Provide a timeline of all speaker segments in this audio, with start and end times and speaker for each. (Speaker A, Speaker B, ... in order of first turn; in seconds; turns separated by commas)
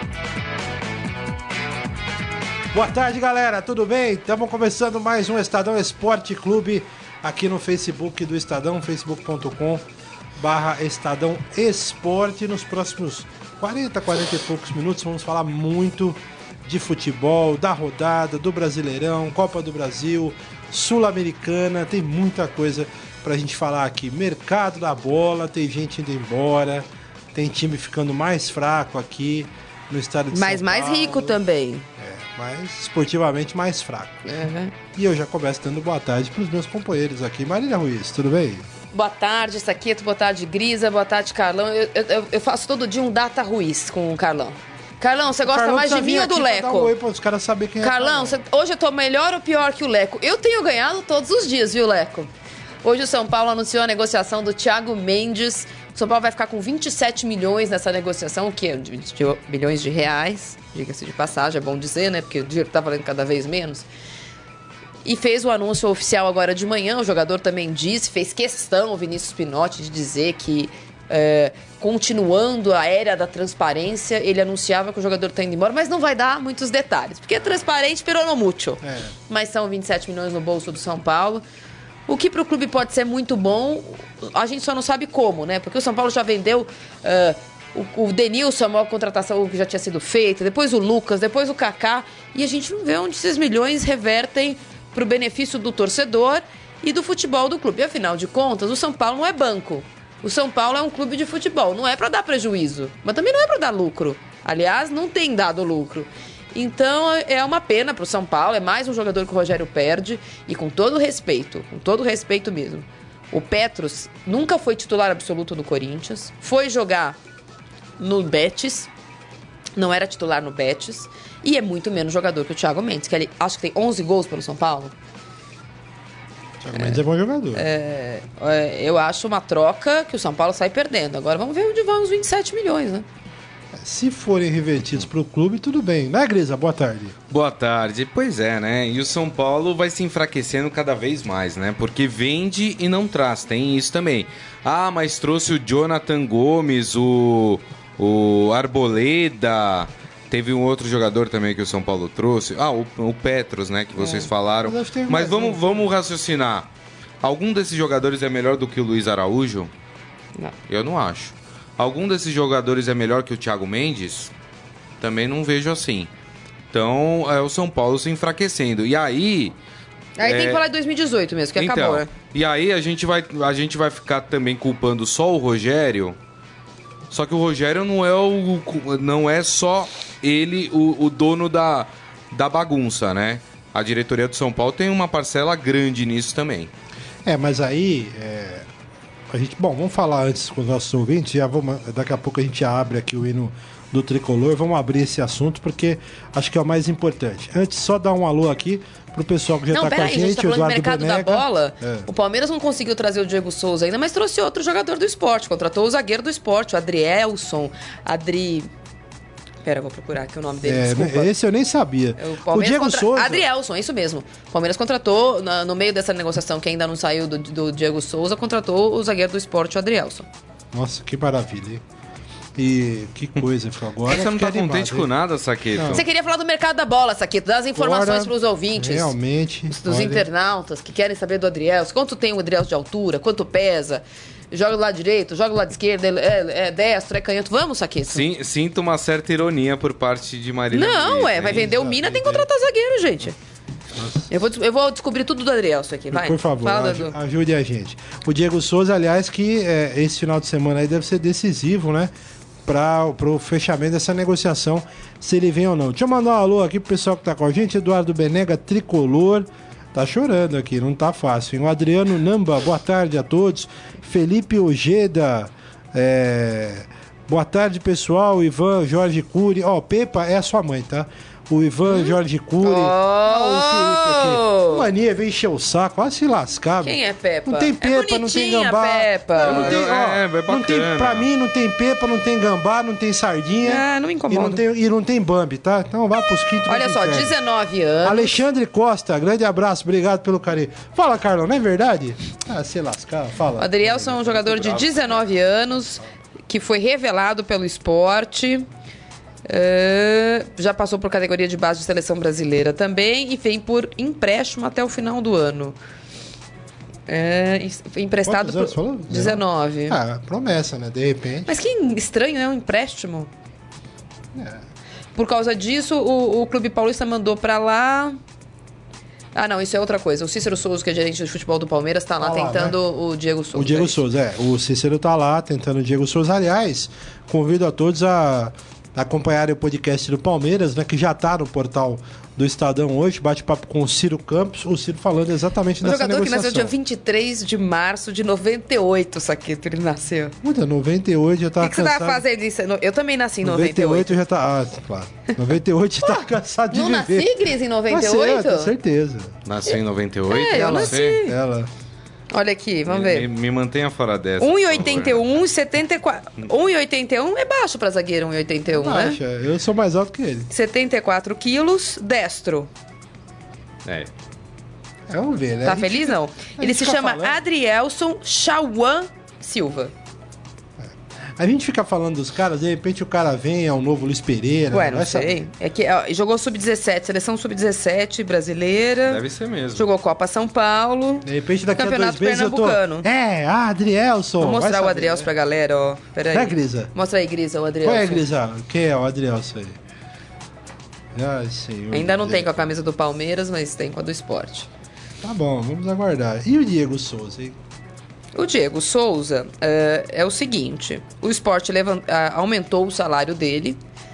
Speaker A: 2.7-9.8, Speaker A: 10.4-31.4, Speaker B: 30.3-31.9, Speaker A: 32.0-34.2, Speaker B: 34.2-34.7, Speaker A: 34.9-38.7, Speaker B: 38.9-46.9, Speaker A: 45.5-48.4, Speaker B: 47.8-52.3, Speaker B: 52.8-63.9, Speaker B: 65.0-81.4, Speaker A: 78.8-79.1, Speaker B: 82.1-117.2, Speaker B: 118.0-118.9, Speaker B: 119.8-124.9, Speaker A: 126.6-127.7, Speaker B: 126.7-127.0, Speaker B: 127.5-133.1, Speaker A: 133.8-137.2, Speaker C: 137.3-156.7, Speaker B: 154.0-154.3, Speaker A: 154.6-155.6, Speaker C: 157.2-159.7, Speaker C: 160.7-164.3, Speaker C: 165.0-166.1, Speaker C: 166.7-169.5, Speaker B: 170.2-172.1, Speaker C: 170.2-170.6, Speaker C: 171.6-176.2, Speaker C: 177.1-186.7, Speaker A: 187.2-188.7, Speaker A: 189.3-202.1, Speaker B: 199.7-208.7, Speaker B: 209.6-211.3, Speaker A: 210.6-213.4, Speaker B: 212.2-220.3, Speaker A: 220.7-221.8, Speaker A: 222.6-225.1, Speaker C: 224.0-226.0, Speaker A: 225.7-226.0, Speaker B: 225.9-229.1, Speaker A: 227.7-230.3, Speaker B: 229.7-238.3, Speaker C: 238.1-241.6, Speaker B: 240.7-243.3, Speaker A: 241.4-242.5, Speaker A: 243.9-244.3, Speaker B: 244.3-247.2, Speaker A: 246.1-252.1, Speaker A: 252.6-287.3, Speaker B: 271.9-274.9, Speaker B: 276.8-279.8, Speaker C: 279.4-281.2, Speaker B: 283.6-284.6, Speaker B: 286.6-288.4, Speaker A: 288.0-294.4, Speaker B: 293.6-298.6, Speaker C: 294.2-295.1, Speaker B: 299.4-305.8, Speaker B: 307.1-310.0, Speaker A: 308.2-311.6, Speaker B: 311.4-313.3, Speaker A: 314.3-314.6, Speaker B: 315.1-318.2, Speaker B: 319.3-324.0, Speaker A: 322.2-322.8, Speaker A: 323.5-336.7, Speaker B: 335.8-340.3, Speaker A: 340.4-342.2, Speaker B: 341.6-344.2, Speaker A: 343.4-347.3, Speaker B: 346.0-348.7, Speaker A: 347.9-349.4, Speaker C: 349.4-351.2, Speaker B: 349.6-351.4, Speaker A: 350.5-351.7, Speaker B: 352.3-353.3, Speaker C: 352.9-355.3, Speaker B: 354.4-359.2, Speaker A: 358.7-360.5, Speaker B: 360.5-362.7, Speaker C: 363.8-364.1, Speaker A: 365.1-367.4, Speaker B: 365.6-369.9, Speaker A: 370.8-375.4, Speaker B: 374.7-379.2, Speaker C: 379.1-379.9, Speaker B: 379.7-383.1, Speaker A: 381.2-385.3, Speaker B: 384.4-388.2, Speaker A: 386.3-386.9, Speaker A: 387.8-389.8, Speaker A: 391.1-392.7, Speaker B: 391.9-394.7, Speaker A: 395.2-397.6, Speaker B: 398.3-403.8